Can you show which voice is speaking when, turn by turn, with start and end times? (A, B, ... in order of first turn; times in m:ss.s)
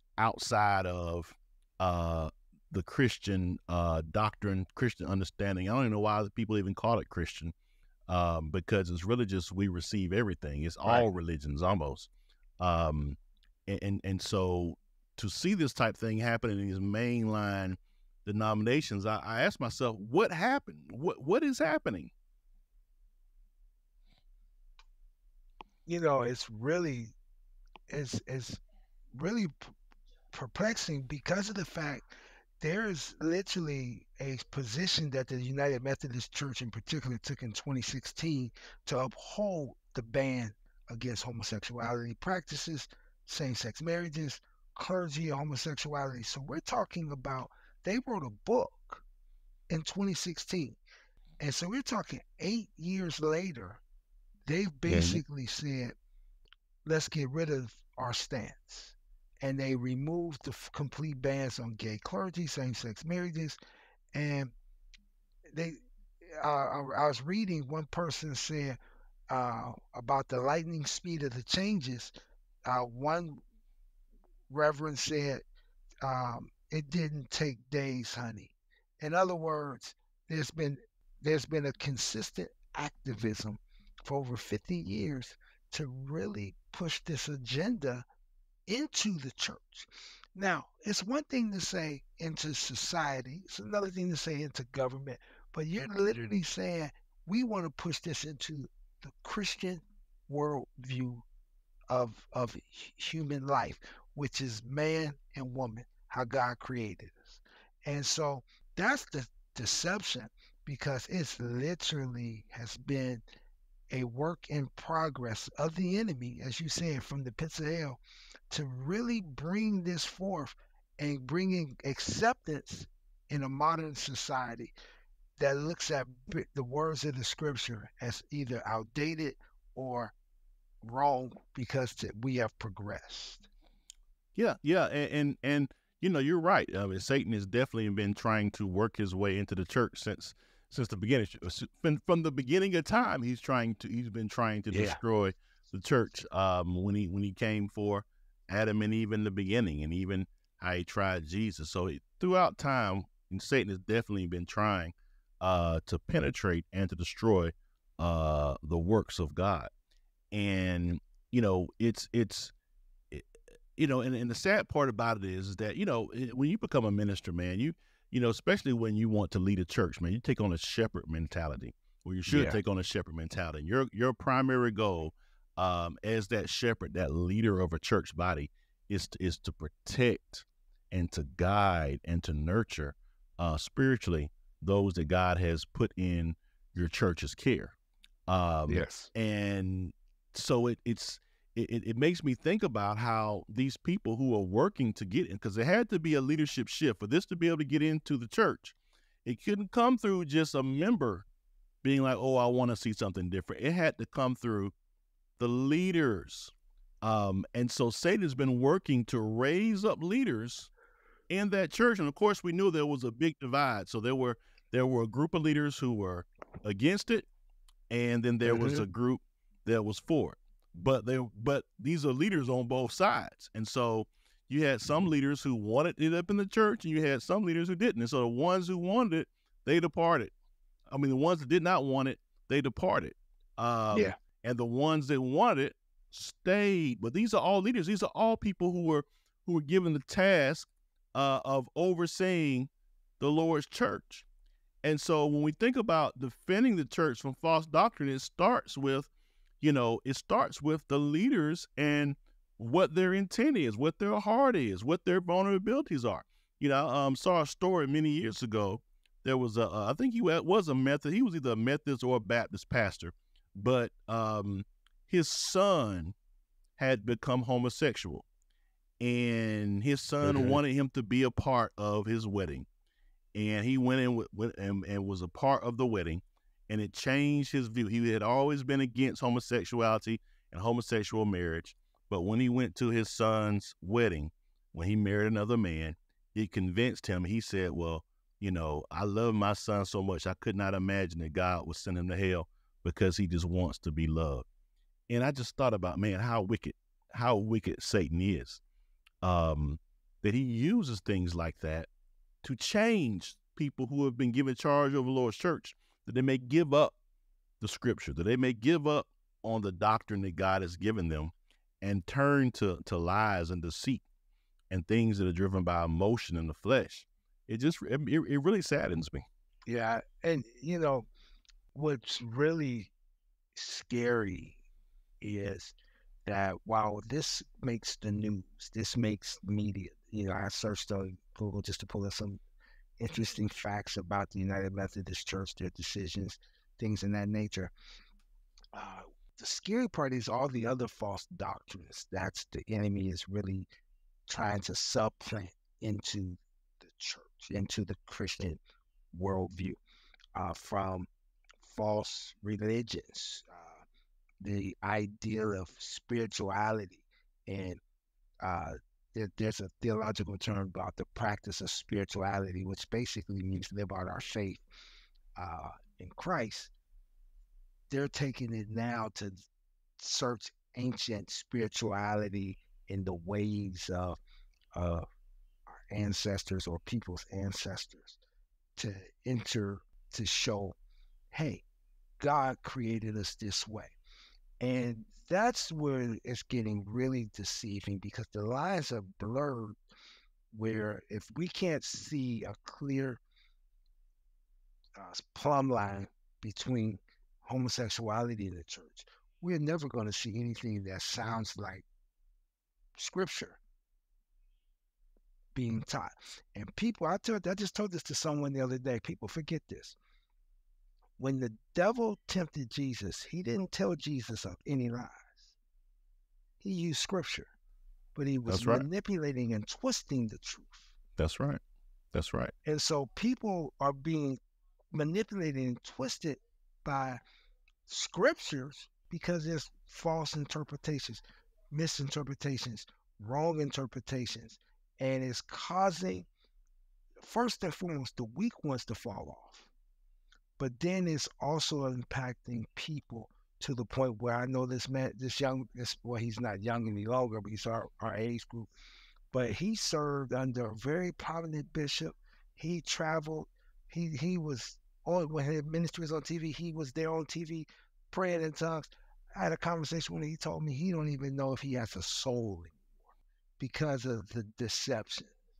0:00.2-0:07.5 A
0:08.1-0:22.1 A
0:25.8-0:27.1 B
0:27.9-0:28.6 B
0:29.1-0:29.7 B
0:30.3-0:32.0 B
0:32.6-0:49.0 B
0:49.7-0:50.8 B
0:51.4-0:53.8 B
0:54.5-0:55.9 B
0:54.9-0:55.2 A
0:56.8-1:03.6 B
1:04.1-1:04.5 B
1:05.5-1:05.8 B
1:06.4-1:08.8 B
1:09.3-1:12.1 B
1:12.6-1:13.4 B
1:14.5-1:15.4 B
1:16.0-1:28.0 B
1:28.7-1:41.2 B
1:41.9-1:53.2 B
1:53.9-1:58.0 B
1:58.5-2:04.7 B
2:05.4-2:10.1 B
2:10.8-2:13.5 B
2:14.3-2:39.7 A
2:24.7-2:25.0 B
2:40.3-2:42.5 A
2:43.1-3:07.7 A
2:52.3-2:52.6 B
3:08.3-3:21.2 A
3:08.7-3:09.1 B
3:21.8-3:24.7 A
3:25.4-3:30.7 A
3:31.3-3:37.3 A
3:37.9-3:50.3 A
3:38.4-3:38.8 B
3:50.9-4:02.7 A
4:03.2-4:04.2 A
4:04.8-4:09.1 A
4:09.6-4:26.1 A
4:26.8-4:28.2 A
4:29.0-4:32.7 A
4:30.2-4:30.6 B
4:33.3-4:54.5 A
4:55.1-4:58.6 A
4:59.2-5:01.9 A
5:02.4-5:07.0 A
5:07.6-5:14.0 A
5:14.7-5:19.2 A
5:19.7-5:21.1 B
5:21.7-5:22.9 B
5:23.5-5:24.6 B
5:25.2-5:25.7 B
5:26.2-5:32.4 B
5:33.0-5:37.7 B
5:38.7-5:43.7 B
5:44.3-5:48.6 B
5:49.1-5:49.8 B
5:50.3-5:51.1 B
5:51.6-5:53.8 B
5:54.4-5:57.8 B
5:58.4-6:04.6 B
6:05.4-6:06.7 B
6:07.9-6:09.5 B
6:10.0-6:14.2 B
6:14.7-6:15.0 B
6:15.9-6:18.2 B
6:18.8-6:20.8 B
6:21.3-6:21.6 B
6:22.2-6:23.9 B
6:24.6-6:29.8 B
6:30.5-6:33.2 B
6:35.0-6:41.8 B
6:43.0-6:43.6 B
6:45.5-6:50.0 B
6:51.2-6:55.5 B
6:56.6-6:57.5 B
6:58.2-7:00.9 B
6:58.5-6:58.8 A
7:01.2-7:01.6 A
7:02.1-7:02.5 A
7:02.6-7:04.4 B
7:04.9-7:07.2 B
7:07.9-7:16.3 B
7:17.2-7:19.7 B
7:20.6-7:28.7 B
7:29.3-7:42.8 B
7:43.6-7:45.3 B